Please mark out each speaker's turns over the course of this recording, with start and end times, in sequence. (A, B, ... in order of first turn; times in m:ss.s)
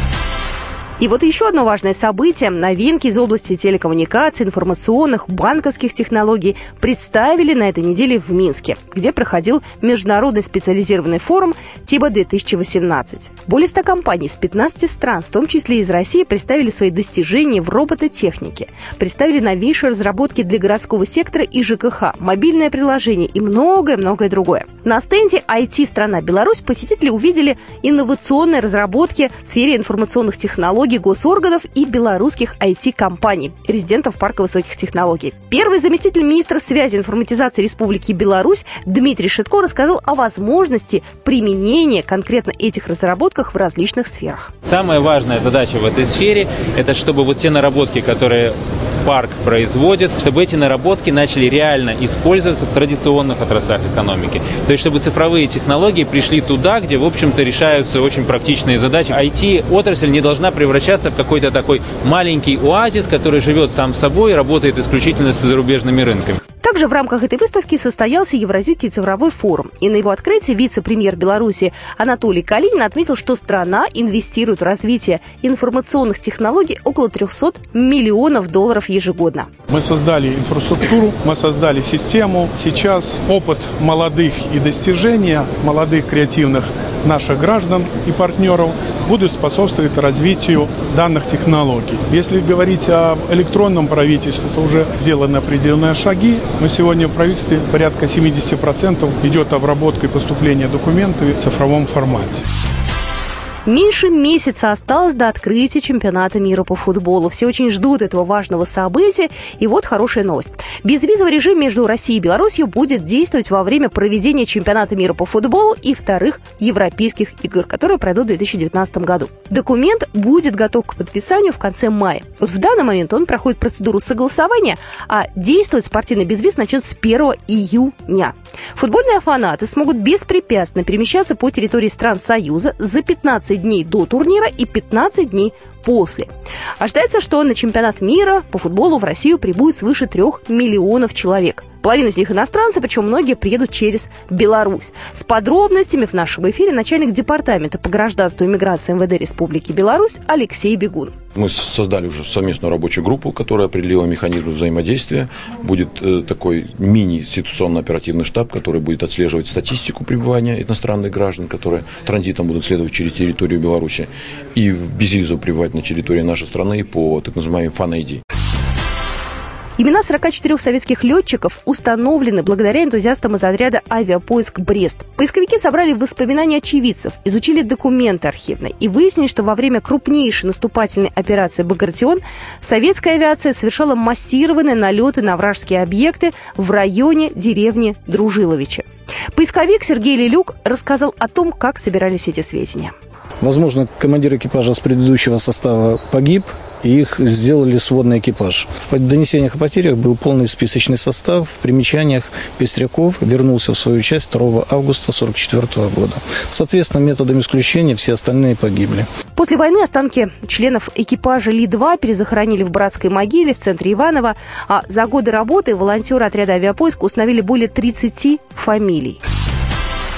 0:01.0-0:44.5 A
0:44.6-1:06.4 B
1:06.6-1:19.5 A
1:19.7-1:42.4 C
1:43.7-2:16.3 A
2:16.8-2:31.1 A
2:31.4-2:48.2 D
2:49.8-3:12.9 A
3:13.4-3:29.1 E
3:29.4-3:39.2 A